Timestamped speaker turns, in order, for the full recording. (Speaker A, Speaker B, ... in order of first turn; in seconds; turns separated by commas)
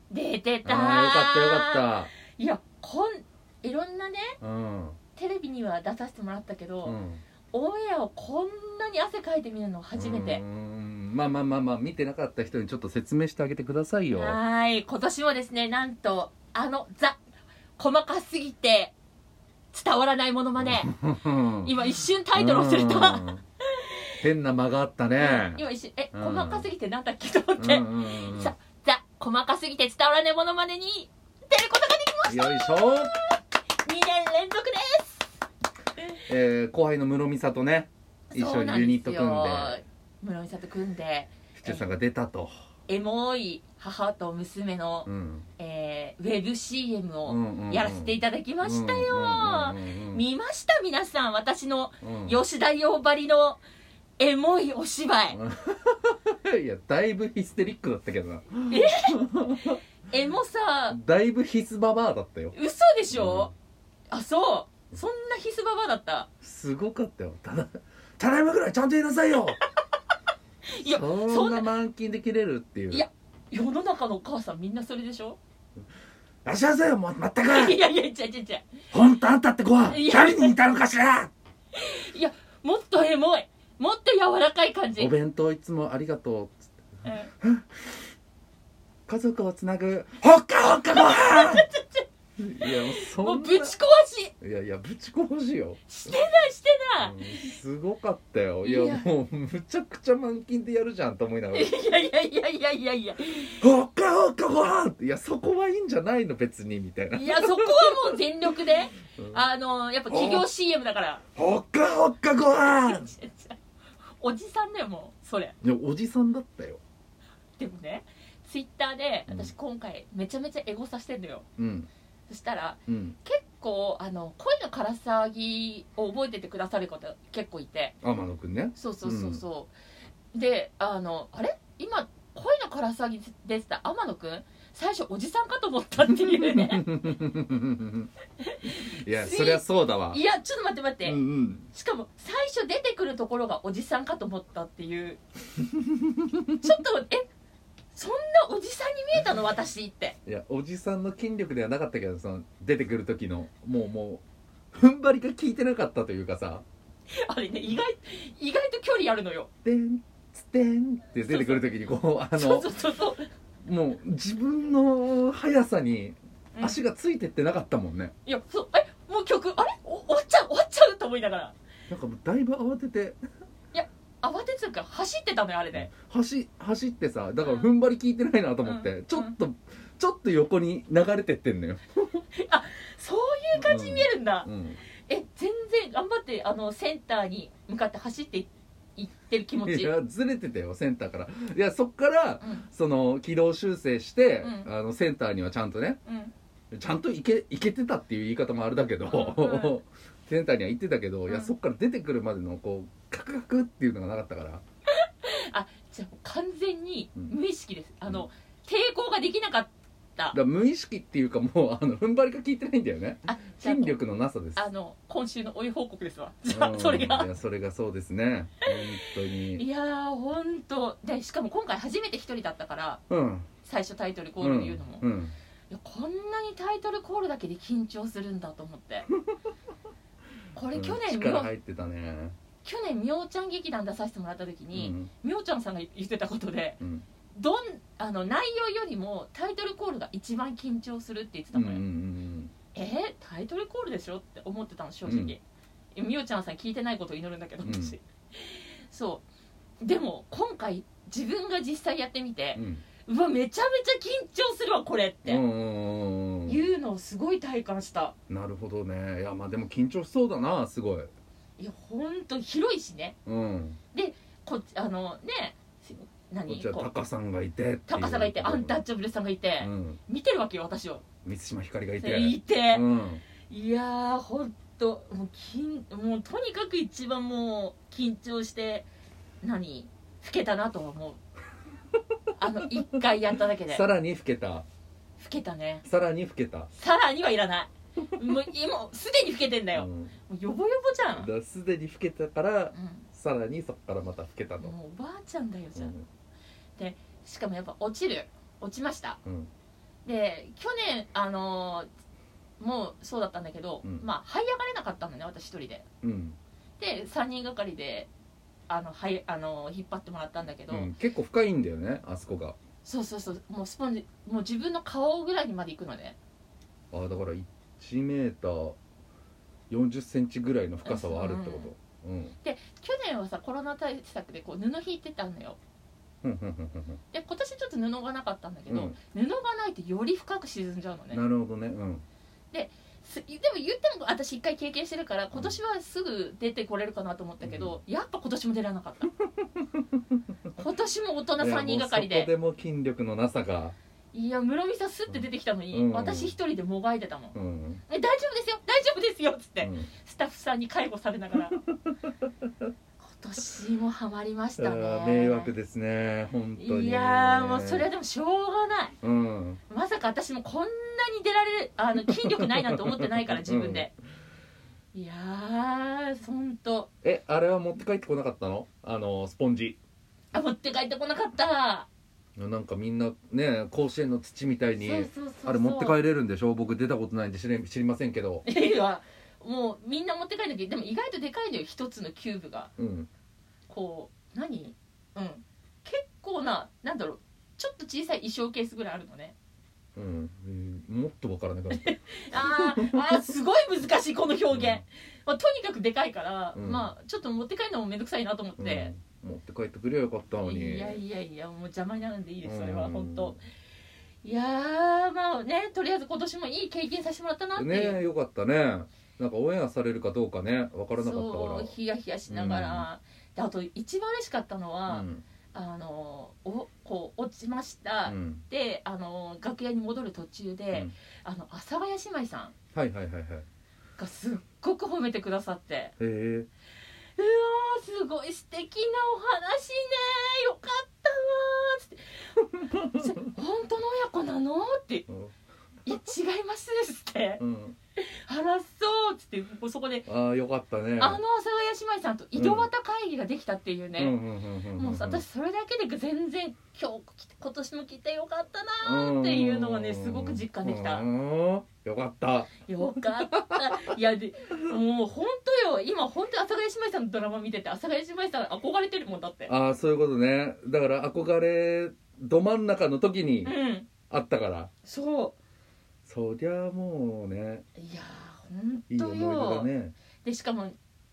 Speaker A: 0.1-4.4, Speaker B: 0.6-2.1, Speaker B: 4.4-5.0, Speaker A: 5.2-7.0, Speaker B: 6.8-7.2, Speaker A: 7.5-10.4, Speaker B: 9.9-14.4, Speaker A: 14.1-17.2, Speaker A: 17.8-18.9, Speaker A: 19.7-24.0, Speaker B: 20.6-21.7, Speaker B: 22.3-23.4, Speaker B: 24.2-25.6, Speaker A: 25.1-35.4, Speaker B: 26.1-26.7, Speaker B: 27.6-28.5, Speaker B: 32.3-33.1, Speaker B: 36.3-39.8, Speaker A: 38.3-41.9, Speaker B: 41.5-42.5, Speaker A: 42.9-53.6, Speaker B: 45.0-45.5, Speaker B: 47.2-50.2, Speaker B: 52.0-52.4, Speaker A: 54.2-55.4, Speaker B: 55.3-59.8, Speaker A: 58.7-59.5, Speaker A: 60.1-61.0, Speaker B: 60.9-62.5, Speaker A: 62.5-63.5, Speaker B: 63.1-63.5, Speaker A: 64.1-66.3, Speaker B: 66.4-69.6, Speaker A: 70.7-71.7, Speaker B: 70.8-73.0, Speaker A: 72.9-75.4, Speaker B: 76.4-77.8, Speaker A: 77.5-78.7, Speaker B: 78.9-81.3, Speaker A: 79.8-80.6, Speaker A: 81.7-85.1, Speaker B: 85.0-86.7, Speaker A: 87.0-87.3, Speaker B: 87.4-87.8, Speaker B: 89.1-91.7, Speaker A: 90.9-92.0, Speaker B: 92.4-93.8, Speaker A: 92.6-94.3, Speaker B: 94.4-96.0, Speaker A: 95.9-97.5, Speaker B: 97.0-101.7, Speaker A: 98.6-99.0, Speaker A: 101.5-103.6, Speaker B: 103.2-108.2, Speaker A: 107.1-111.2, Speaker B: 109.2-109.4, Speaker B: 110.1-110.5, Speaker B: 111.3-113.1, Speaker A: 112.5-113.5, Speaker A: 114.2-115.5, Speaker B: 115.6-116.8, Speaker A: 117.6-121.5, Speaker B: 121.6-121.9, Speaker A: 122.3-128.0, Speaker B: 122.9-123.2, Speaker B: 128.0-129.4, Speaker A: 128.8-129.7, Speaker A: 130.3-137.1, Speaker B: 136.0-138.1, Speaker A: 138.4-141.2, Speaker B: 138.7-140.2, Speaker B: 141.0-141.7, Speaker A: 141.7-145.2, Speaker B: 145.7-146.7, Speaker A: 146.6-147.2, Speaker A: 147.9-150.2, Speaker B: 150.2-156.6, Speaker A: 157.2-159.5, Speaker B: 159.6-162.7, Speaker A: 161.2-161.8, Speaker A: 162.3-163.2, Speaker B: 163.6-168.1, Speaker A: 166.5-166.8, Speaker A: 168.2-171.5, Speaker B: 171.9-173.2, Speaker A: 173.7-175.9, Speaker B: 175.7-182.2, Speaker A: 177.4-177.7, Speaker A: 178.6-179.3, Speaker A: 182.3-189.9, Speaker B: 183.6-184.8, Speaker B: 189.6-196.0, Speaker A: 192.4-192.7, Speaker A: 194.4-194.7, Speaker A: 196.1-196.3, Speaker B: 196.7-204.6, Speaker A: 199.0-199.8, Speaker A: 205.0-210.4, Speaker B: 210.3-214.7, Speaker A: 213.2-214.0, Speaker A: 214.6-217.3, Speaker B: 216.5-219.7, Speaker A: 218.8-223.0, Speaker B: 223.1-223.5, Speaker A: 223.6-225.1, Speaker B: 224.4-225.3, Speaker A: 225.7-229.1, Speaker A: 230.5-231.5, Speaker B: 230.7-232.4, Speaker A: 232.6-236.8, Speaker B: 234.7-235.1, Speaker B: 236.8-237.1, Speaker A: 237.3-241.8, Speaker B: 241.5-242.5, Speaker A: 242.7-245.4, Speaker B: 245.0-245.3, Speaker A: 245.9-249.2, Speaker B: 247.6-248.0, Speaker A: 249.8-255.4, Speaker B: 252.6-252.8, Speaker B: 255.2-256.6, Speaker A: 256.5-258.1, Speaker B: 258.3-261.1, Speaker A: 261.6-263.1, Speaker B: 263.2-263.8, Speaker A: 263.9-266.9, Speaker B: 266.5-268.8, Speaker A: 267.9-271.0, Speaker B: 269.6-270.0, Speaker B: 271.2-273.2, Speaker A: 272.0-272.8, Speaker A: 273.5-278.9, Speaker A: 279.4-281.2, Speaker A: 282.4-283.8, Speaker B: 283.7-284.6, Speaker A: 285.2-285.8, Speaker B: 285.8-286.7, Speaker A: 286.7-291.3, Speaker B: 289.7-290.1, Speaker B: 291.1-294.7, Speaker A: 292.7-293.1, Speaker A: 294.6-295.9, Speaker B: 295.8-296.1, Speaker A: 296.8-299.2, Speaker B: 299.2-299.5, Speaker A: 300.0-301.9, Speaker A: 302.6-305.9, Speaker B: 306.0-306.4, Speaker A: 306.8-308.1, Speaker A: 308.7-310.9, Speaker B: 310.7-312.6, Speaker A: 312.8-316.2, Speaker B: 316.9-318.8, Speaker B: 319.7-322.4, Speaker A: 320.8-321.7, Speaker A: 322.4-325.6, Speaker B: 326.2-327.0, Speaker A: 327.1-331.2, Speaker B: 328.7-329.0, Speaker B: 331.1-332.0, Speaker A: 332.5-339.1, Speaker B: 337.4-337.8, Speaker B: 339.4-340.0, Speaker A: 340.6-342.3, Speaker B: 341.4-343.8, Speaker A: 344.1-347.4, Speaker B: 345.1-346.4, Speaker B: 347.3-347.8, Speaker A: 347.9-351.6, Speaker B: 349.6-349.9, Speaker B: 351.6-352.7, Speaker A: 353.0-355.5, Speaker B: 354.6-357.9, Speaker A: 356.6-358.9, Speaker B: 359.0-359.6, Speaker A: 359.7-363.9, Speaker B: 362.1-363.9, Speaker A: 364.9-366.9, Speaker B: 367.0-369.8, Speaker A: 370.3-371.9, Speaker B: 372.4-378.4, Speaker A: 374.8-376.0, Speaker A: 378.4-382.7, Speaker B: 382.8-383.1, Speaker A: 383.7-389.4, Speaker B: 389.9-393.2, Speaker A: 391.7-398.9, Speaker B: 394.5-394.8, Speaker B: 396.5-396.9, Speaker B: 398.6-401.0, Speaker A: 400.4-403.4, Speaker B: 402.4-403.4, Speaker A: 404.2-408.0, Speaker B: 407.6-411.8, Speaker A: 410.9-422.5, Speaker B: 412.3-412.9, Speaker B: 414.9-415.2, Speaker B: 418.1-418.4, Speaker B: 422.7-423.4, Speaker A: 424.0-425.9, Speaker B: 426.0-426.5, Speaker A: 427.1-432.4, Speaker B: 432.7-433.0, Speaker A: 432.9-435.1, Speaker B: 435.1-435.3, Speaker A: 435.8-437.4, Speaker B: 437.4-437.8, Speaker A: 438.0-440.1, Speaker B: 440.1-441.2, Speaker A: 441.0-444.2, Speaker B: 442.4-442.7, Speaker B: 443.9-445.2, Speaker A: 444.8-451.1, Speaker B: 448.8-452.6, Speaker A: 452.6-459.5, Speaker B: 453.3-453.9, Speaker B: 459.5-463.5, Speaker A: 463.4-463.9, Speaker B: 464.1-464.7, Speaker A: 464.8-465.4, Speaker B: 466.0-467.6, Speaker A: 467.8-469.7, Speaker B: 468.9-469.9, Speaker A: 470.2-470.8